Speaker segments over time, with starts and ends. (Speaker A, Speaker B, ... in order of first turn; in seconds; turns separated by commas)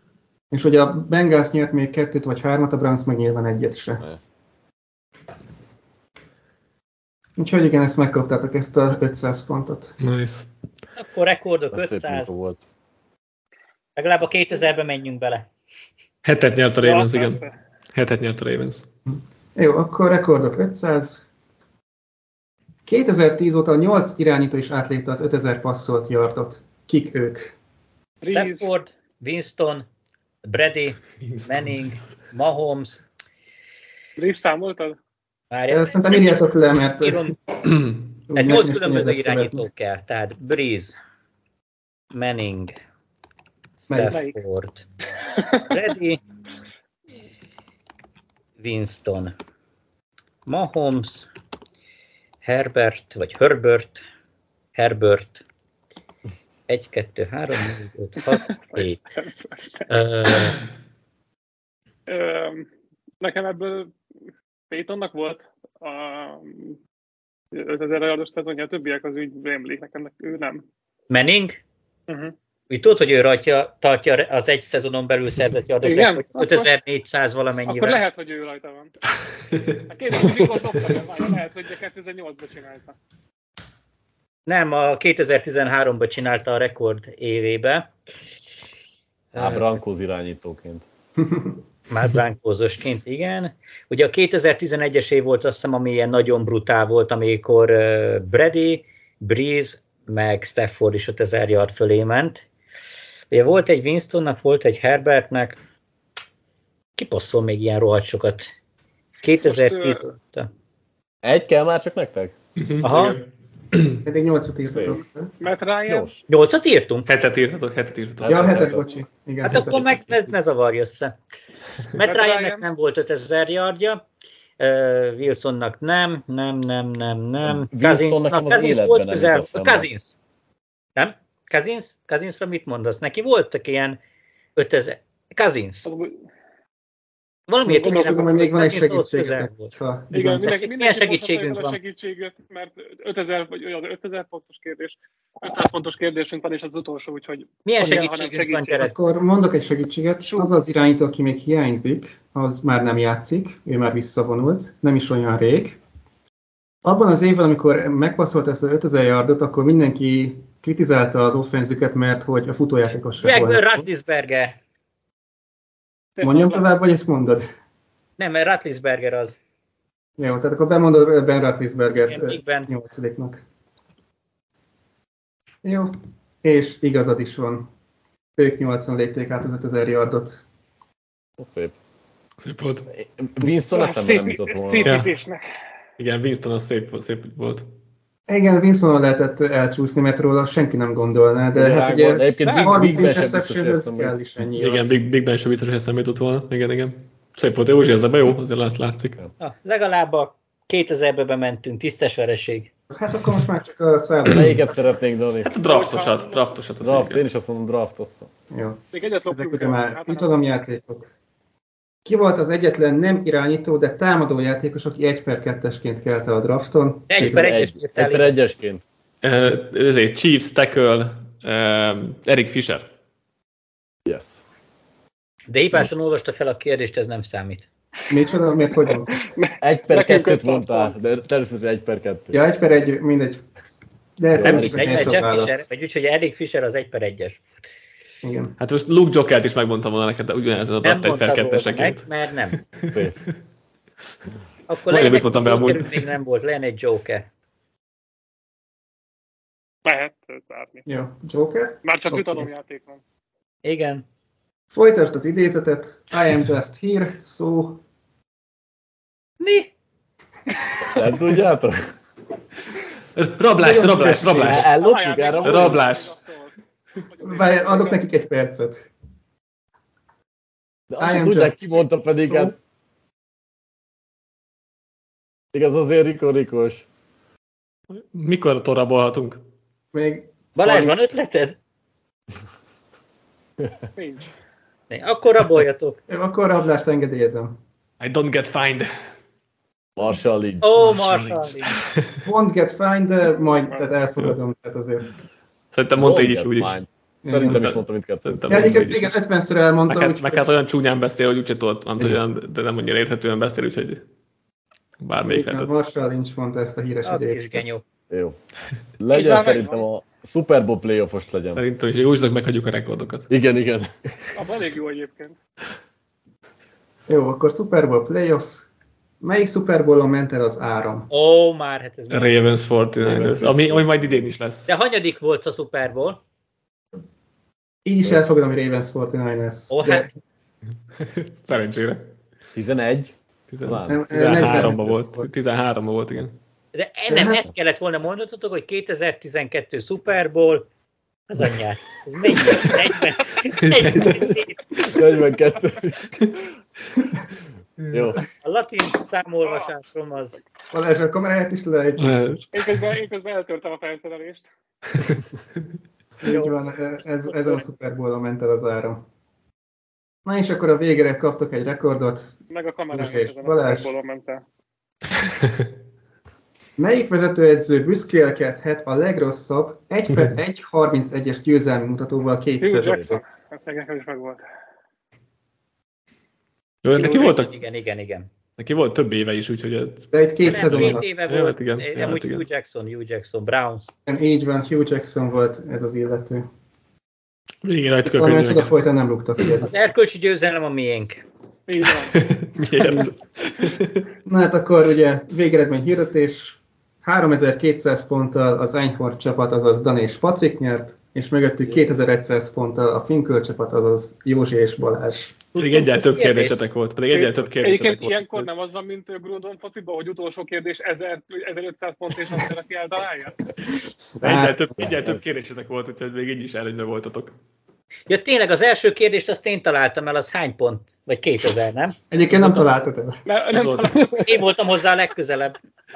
Speaker A: 0.5-4.0, Speaker A: 7.4-9.9, Speaker B: 10.0-10.5, Speaker C: 10.9-12.3, Speaker D: 11.7-12.6, Speaker C: 13.9-15.4, Speaker B: 16.2-17.4, Speaker E: 16.8-17.6, Speaker B: 17.9-18.9, Speaker A: 19.1-21.2, Speaker A: 22.9-27.5, Speaker E: 28.2-28.7, Speaker C: 28.3-29.9, Speaker C: 30.4-33.0, Speaker B: 31.2-32.1, Speaker E: 34.2-35.0, Speaker C: 35.5-37.4, Speaker A: 35.7-37.3, Speaker A: 38.3-39.6, Speaker C: 38.3-41.0, Speaker C: 42.1-42.7, Speaker C: 43.8-44.8, Speaker A: 43.9-44.2, Speaker E: 44.1-44.4, Speaker E: 45.3-45.7, Speaker C: 45.7-46.2, Speaker C: 48.6-49.3, Speaker C: 50.5-51.3, Speaker C: 52.4-54.0, Speaker C: 54.7-55.4, Speaker C: 56.7-59.0, Speaker E: 58.3-59.8, Speaker C: 59.9-60.6, Speaker E: 62.1-62.7, Speaker E: 63.2-63.9, Speaker E: 64.7-66.8, Speaker E: 67.5-70.6, Speaker C: 71.1-71.6, Speaker E: 72.1-72.3, Speaker C: 72.7-78.0, Speaker E: 75.8-76.7, Speaker E: 77.7-78.9, Speaker B: 79.5-79.8, Speaker E: 79.9-83.0, Speaker C: 84.5-87.9, Speaker C: 89.3-89.8, Speaker D: 89.3-90.9, Speaker C: 91.9-102.4, Speaker C: 103.3-105.6, Speaker C: 107.0-108.5, Speaker C: 109.2-110.5, Speaker E: 109.4-110.0, Speaker D: 111.2-112.3, Speaker B: 112.6-114.0, Speaker C: 112.8-113.2, Speaker A: 114.0-115.3, Speaker D: 114.7-115.0, Speaker E: 115.4-116.1, Speaker D: 115.9-116.2, Speaker C: 116.3-117.1, Speaker B: 117.1-118.6, Speaker D: 118.2-118.9, Speaker A: 118.3-120.2, Speaker C: 119.4-121.1, Speaker C: 121.9-124.0, Speaker E: 122.0-122.7, Speaker C: 124.6-130.2, Speaker D: 127.4-129.8, Speaker C: 130.9-134.0, Speaker C: 134.6-135.9, Speaker E: 135.8-136.1, Speaker C: 137.5-139.7, Speaker A: 137.7-140.5, Speaker E: 137.9-138.3, Speaker E: 140.1-148.9, Speaker C: 140.4-141.8, Speaker C: 147.6-148.9, Speaker A: 148.8-155.8, Speaker A: 156.8-163.8, Speaker C: 163.2-164.6, Speaker E: 166.2-166.7, Speaker A: 166.2-167.5, Speaker C: 168.2-169.4, Speaker A: 170.2-173.4, Speaker C: 172.1-172.7, Speaker A: 175.6-175.9, Speaker A: 176.4-177.7, Speaker A: 178.4-180.4, Speaker D: 181.4-181.8, Speaker B: 182.4-182.9, Speaker D: 182.9-185.0, Speaker E: 183.7-185.5, Speaker B: 184.8-185.1, Speaker B: 186.0-187.7, Speaker A: 188.3-195.0, Speaker D: 191.5-194.2, Speaker E: 192.4-193.1, Speaker B: 194.5-199.2, Speaker C: 199.4-202.7, Speaker A: 202.9-204.6, Speaker D: 204.3-205.5, Speaker B: 205.4-207.2, Speaker E: 205.6-206.5, Speaker D: 206.8-208.3, Speaker A: 208.5-211.1, Speaker E: 208.9-210.4, Speaker A: 212.0-217.4, Speaker C: 217.1-218.4, Speaker D: 217.2-218.8, Speaker B: 219.2-222.9, Speaker D: 224.1-224.4, Speaker C: 225.5-227.7, Speaker A: 228.1-229.3, Speaker E: 229.1-230.9, Speaker D: 229.6-232.4, Speaker A: 232.3-233.4, Speaker A: 234.2-235.7, Speaker D: 234.3-235.2, Speaker C: 234.4-237.4, Speaker A: 238.2-238.5, Speaker B: 238.6-243.0, Speaker C: 240.8-242.6, Speaker D: 242.9-243.2, Speaker C: 244.7-247.2, Speaker B: 244.9-246.1, Speaker E: 249.8-250.8, Speaker A: 250.9-252.5, Speaker E: 251.8-253.0, Speaker C: 253.6-254.0, Speaker A: 254.7-257.8, Speaker C: 259.4-259.7, Speaker D: 260.9-261.8, Speaker B: 263.1-264.7, Speaker A: 263.6-264.7, Speaker D: 264.4-265.8, Speaker E: 264.7-268.0, Speaker B: 265.4-266.1, Speaker A: 267.2-268.9, Speaker D: 270.9-272.6, Speaker A: 271.0-272.5, Speaker D: 275.5-276.9, Speaker B: 277.9-279.4, Speaker A: 279.9-281.0, Speaker C: 280.6-281.6, Speaker E: 283.9-284.3, Speaker C: 284.9-286.0, Speaker A: 286.1-287.6, Speaker B: 288.0-288.9, Speaker D: 289.9-291.0, Speaker C: 290.6-291.8, Speaker B: 290.8-292.2, Speaker A: 292.2-295.1, Speaker E: 293.4-293.9, Speaker B: 295.7-296.8, Speaker D: 295.9-298.9, Speaker A: 297.2-297.6, Speaker B: 297.3-299.2, Speaker A: 298.5-300.4, Speaker B: 299.9-304.0, Speaker B: 305.0-305.7, Speaker A: 305.3-307.7, Speaker C: 307.0-307.8, Speaker D: 308.1-308.4, Speaker D: 309.0-311.6, Speaker E: 309.1-309.8, Speaker B: 311.5-313.3, Speaker D: 313.3-314.1, Speaker E: 314.3-315.4, Speaker A: 317.1-318.6, Speaker A: 319.2-321.1, Speaker C: 321.1-322.4, Speaker B: 322.1-324.7, Speaker D: 323.0-324.2, Speaker C: 324.7-326.2, Speaker A: 327.8-330.1, Speaker C: 329.7-330.1, Speaker B: 331.0-332.1, Speaker D: 332.5-334.6, Speaker B: 333.5-336.4, Speaker A: 333.9-335.3, Speaker C: 336.7-340.7, Speaker A: 337.1-337.4, Speaker C: 341.3-344.6, Speaker B: 343.6-344.3, Speaker D: 344.8-346.3, Speaker D: 347.9-348.2, Speaker C: 348.4-350.4, Speaker E: 349.4-349.7, Speaker A: 350.7-352.2, Speaker B: 352.0-352.5, Speaker E: 352.5-354.5, Speaker A: 356.2-359.0, Speaker C: 356.2-356.5, Speaker E: 357.3-357.6, Speaker A: 360.2-362.3, Speaker E: 362.5-364.4, Speaker A: 362.9-363.9, Speaker A: 366.8-373.2, Speaker E: 372.6-374.4, Speaker B: 376.8-377.5, Speaker C: 376.9-378.3, Speaker B: 378.6-382.4, Speaker A: 380.1-381.1, Speaker C: 380.4-383.9, Speaker A: 384.1-386.5, Speaker B: 387.6-388.7, Speaker A: 388.0-389.7, Speaker C: 389.6-391.2, Speaker E: 391.7-392.2, Speaker B: 392.0-394.1, Speaker A: 392.8-393.1, Speaker A: 394.2-405.4, Speaker B: 405.5-408.5, Speaker C: 406.0-406.6, Speaker E: 407.1-413.4, Speaker B: 414.2-417.3, Speaker A: 414.2-414.9, Speaker D: 414.8-415.2, Speaker C: 418.1-421.9, Speaker A: 422.1-423.2, Speaker E: 423.2-424.5, Speaker B: 423.5-424.0, Speaker C: 424.2-425.6